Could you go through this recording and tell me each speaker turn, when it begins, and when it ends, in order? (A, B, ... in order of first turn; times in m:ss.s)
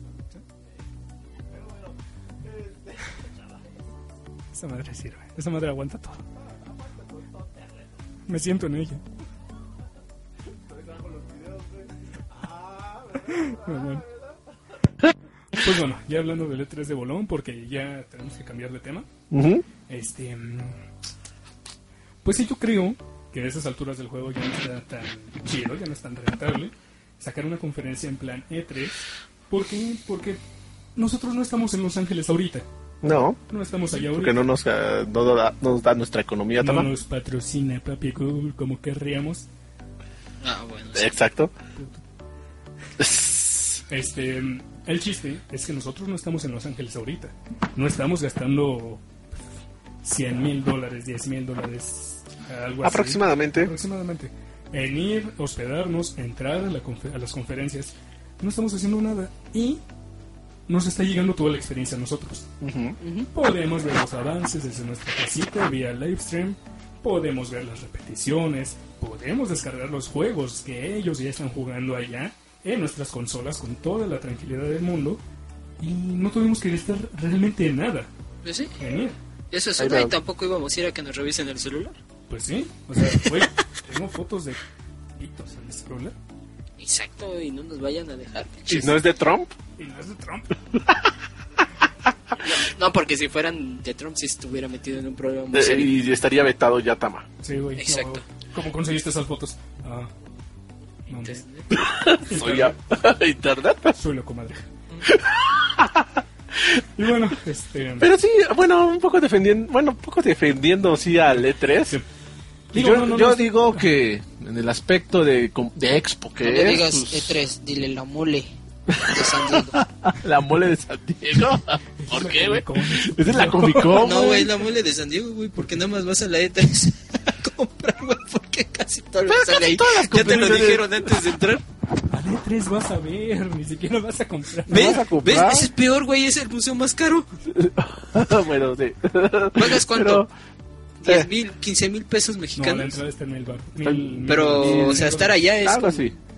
0:01.5-0:01.9 A
0:02.4-0:03.7 A
0:04.5-0:06.2 B
0:06.8-0:07.8 A
0:08.3-0:09.0 B
0:10.7-0:14.4 A
0:13.3-0:14.0 B
0:15.5-0:19.1 B
0:19.3-0:19.6 A
0:19.9-0:20.8 B
0:22.2-0:30.4 B
0:31.0-0:32.6 B
0:33.0-0:33.4 A
0:33.5-0:34.4 B
0:34.0-0:36.9 A
0:36.6-0:39.4 B
0:40.4-0:41.1 C
0:40.9-0:41.5 A
0:41.8-0:42.0 B
0:43.0-0:43.8 A
0:43.9-0:49.0 B
0:50.0-0:59.8 B
0:52.8-0:53.7 A
1:00.7-1:02.5 B
1:02.6-1:03.0 A
1:03.0-1:03.3 C
1:03.3-1:15.2 B
1:15.8-1:18.1 B
1:18.4-1:18.7 C
1:18.8-1:19.2 B
1:19.5-1:22.0 C
1:19.8-1:20.1 A
1:22.3-1:24.6 B
1:25.2-1:26.1 B
1:26.8-1:29.0 C
1:28.7-1:29.5 A
1:29.8-1:30.6 B
1:32.4-1:35.9 C
1:35.5-1:37.2 A
1:37.4-1:40.1 B
1:37.8-1:38.2 C
1:41.1-1:41.4 B
1:41.1-1:41.7 C
1:41.7-1:44.0 A
1:42.2-1:42.8 B
1:44.0-1:44.7 B
1:45.0-1:46.8 A
1:47.0-1:48.1 B
1:48.0-1:52.0 A
1:51.3-1:52.0 B
1:52.7-1:53.9 B
1:52.7-1:57.4 A
1:56.4-1:59.8 C
1:58.9-2:04.6 A
2:02.0-2:04.0 B
2:03.9-2:11.6 C
2:09.3-2:11.1 A
2:12.1-2:15.0 B
2:14.7-2:15.7 A
2:14.7-2:17.3 C
2:17.5-2:20.3 A
2:19.6-2:20.2 C
2:21.0-2:23.0 C
2:22.6-2:25.4 B
2:24.2-2:26.1 C
2:25.6-2:26.1 A